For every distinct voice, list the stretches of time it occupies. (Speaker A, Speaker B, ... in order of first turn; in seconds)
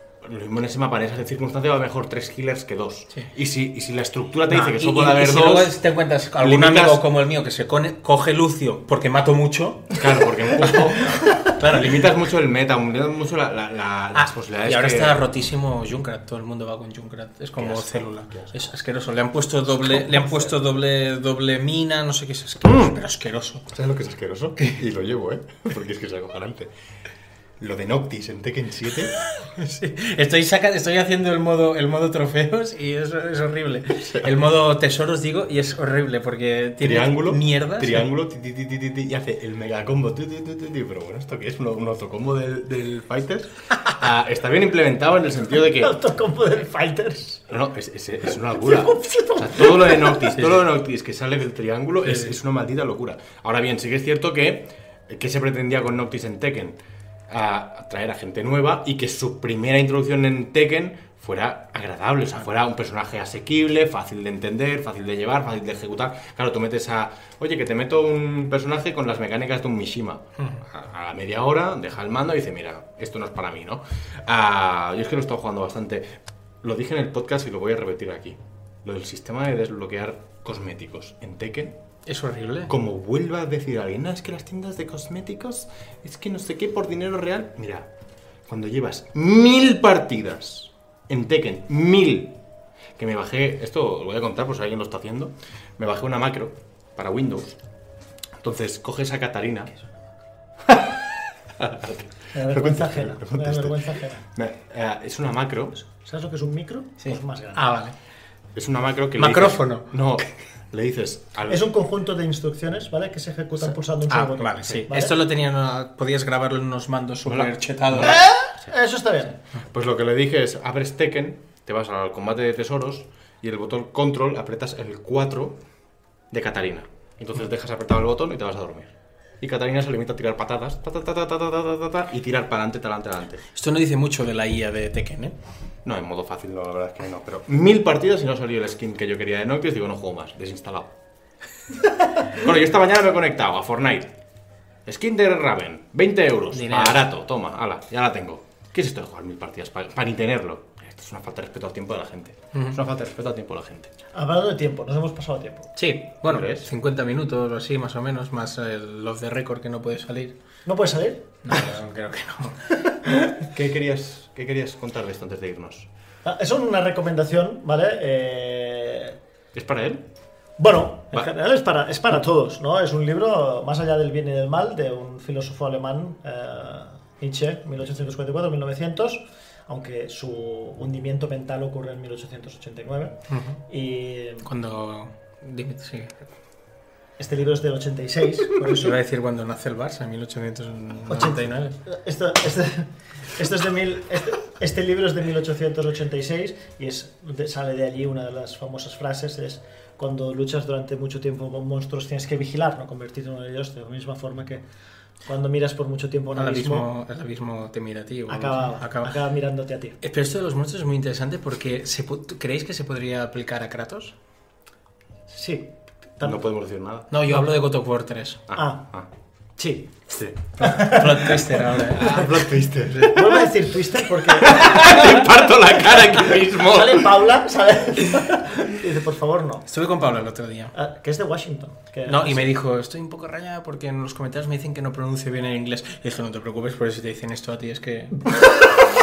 Speaker A: 0.2-5.8, 6.4-7.0, 10.0-15.3, 17.6-18.6, 22.6-23.0, 23.7-26.7, 27.6-29.1, 36.8-46.0, 47.5-56.8, 57.3-81.8, 82.7-87.9, 88.5-92.4, 93.0-97.6, 98.4-99.7, 100.6-101.0, 101.5-105.8, 108.5-111.7, 117.3-118.7, 119.7-125.6, 126.3-133.4, 135.8-140.9, 142.3-144.1, 144.9-153.9, 156.2-156.7, 163.4-165.9, 169.5-170.1, 216.2-217.1, 218.5-219.1, 220.1-220.9, 221.9-223.4, 224.2-227.2
Speaker B: 4.5-10.0, 10.6-12.1, 14.2-23.7, 29.2-38.1, 52.0-52.4, 82.1-82.7, 107.0-107.9, 109.2-110.0, 113.6-118.2, 133.5-135.3, 146.5-147.0, 155.8-160.4, 161.4-162.8, 183.3-183.6, 184.4-186.2, 188.7-191.7, 206.4-209.2, 210.0-214.1, 217.1-218.4, 220.6-223.2, 229.7-230.7, 232.1-238.4
Speaker C: 45.6-47.5, 48.5-50.4, 102.3-104.2, 106.0-107.6, 111.5-115.2, 118.0-119.3, 154.1-155.7, 160.7-161.4, 166.2-169.2, 170.6-184.5, 187.2-189.0, 191.1-204.6, 205.3-206.9, 208.3-210.0, 215.3-216.4, 218.5-218.8, 219.6-219.9, 220.6-221.4, 222.0-222.3, 223.0-225.3, 226.4-229.7, 230.8-232.5, 238.2-238.9